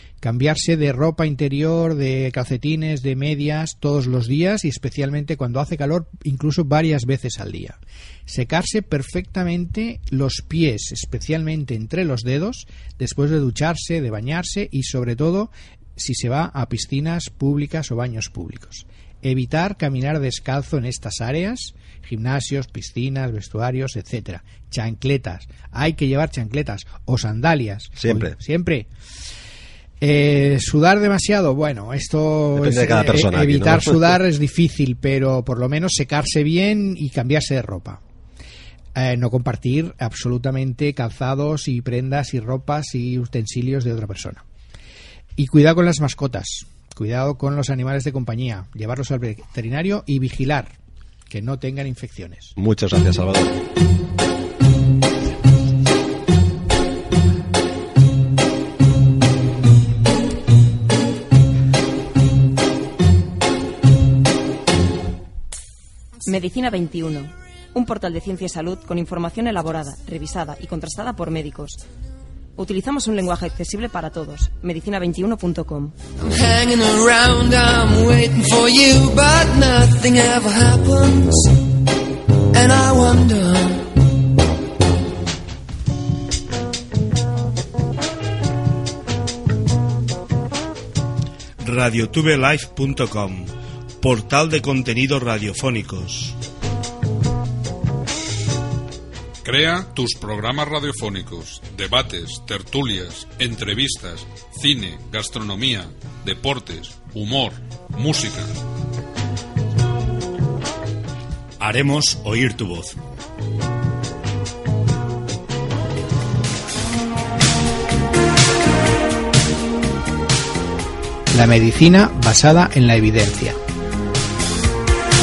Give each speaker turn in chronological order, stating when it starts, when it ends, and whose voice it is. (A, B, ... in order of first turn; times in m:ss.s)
0:00.2-0:28.9 A
0:28.0-0:28.4 B
0:30.0-0:38.0 A
0:32.6-0:34.2 B
0:39.0-0:44.4 A
0:45.4-0:50.8 A
0:51.3-0:52.6 A
0:52.6-0:53.5 B
1:06.2-1:11.8 C
1:12.6-1:16.0 C
1:16.2-1:21.6 D
1:22.5-1:23.9 D
1:31.6-1:36.4 E
1:39.4-1:48.5 F
1:51.6-1:53.0 E
2:01.3-2:03.6 A